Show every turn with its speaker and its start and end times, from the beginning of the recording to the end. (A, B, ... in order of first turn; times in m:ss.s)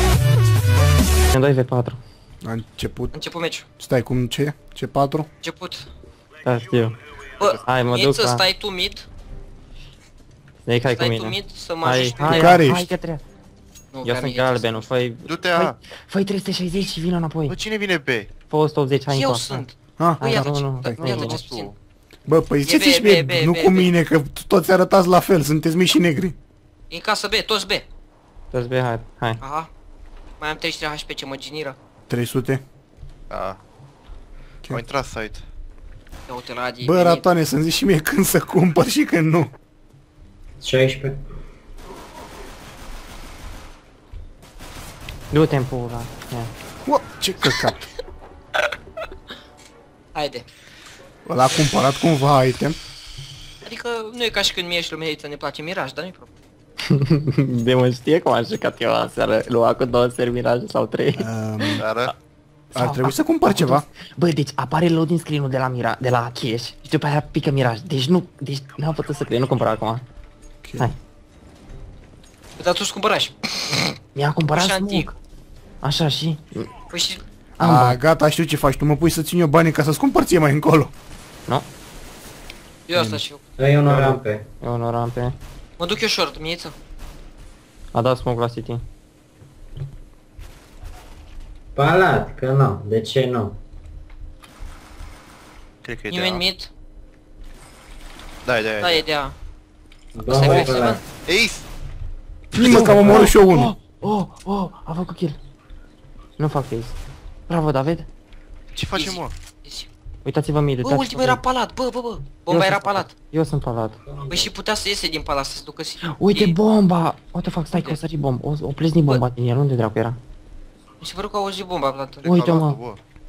0:01.3-0:02.0 A
0:02.4-0:03.1 B
0:03.1-0:03.6 C
0:03.8-0:05.3 B
0:05.4-0:05.9 C
0:06.4-0:07.0 A
0:07.4-0:09.0 C
0:07.6-0:08.4 A
0:10.6-0:13.2 A
0:10.9-0:12.6 C
0:12.2-0:12.9 B
0:13.9-0:14.8 C
0:14.0-0:17.6 A
0:15.3-0:15.8 D
0:17.5-0:18.3 D
0:18.5-0:19.6 A
0:19.1-0:21.7 C
0:20.0-0:20.3 B
0:20.2-0:21.4 A
0:20.8-0:21.7 D
0:22.2-0:26.4 B
0:22.6-0:23.9 C
0:26.9-0:27.8 C
0:28.5-0:29.4 A
0:29.4-0:29.7 C
0:30.4-0:31.8 C
0:32.1-0:32.6 B
0:33.3-0:33.6 D
0:34.7-0:35.4 D
0:36.3-0:37.3 C
0:36.8-0:39.5 B
0:40.6-0:41.2 E
0:45.3-0:46.5 A
0:46.8-0:47.9 B
0:50.1-0:50.4 C
0:51.2-0:52.8 B
0:53.6-0:56.3 C
0:56.9-1:02.1 A
1:01.2-1:01.8 B
1:01.8-1:02.1 D
1:02.7-1:10.0 A
1:02.7-1:03.8 B
1:10.6-1:10.9 B
1:12.6-1:13.9 C
1:14.1-1:15.1 A
1:14.5-1:15.2 C
1:15.8-1:16.7 A
1:16.9-1:17.2 C
1:17.6-1:18.0 A
1:17.6-1:20.9 B
1:22.9-1:23.4 C
1:22.9-1:23.2 B
1:23.6-1:24.5 E
1:23.8-1:25.3 A
1:25.8-1:26.7 C
1:27.9-1:28.8 A
1:31.8-1:33.6 E
1:35.8-1:36.4 D
1:36.1-1:36.7 C
1:38.4-1:39.0 D
1:38.8-1:39.3 C
1:40.1-1:41.0 E
1:40.3-1:41.0 C
1:40.4-1:41.7 D
1:42.5-1:43.7 B
1:42.5-1:45.4 A
1:46.4-1:47.0 A
1:47.5-1:48.1 A
1:48.7-1:49.3 D
1:48.9-1:49.9 C
1:50.2-1:51.4 A
1:50.8-1:53.1 C
1:52.5-1:54.0 A
1:54.0-1:54.5 E
1:54.3-1:56.6 C
1:56.0-2:00.2 A
1:57.7-1:58.0 C
2:01.0-2:02.3 C
2:02.2-2:03.0 D
2:02.2-2:02.8 A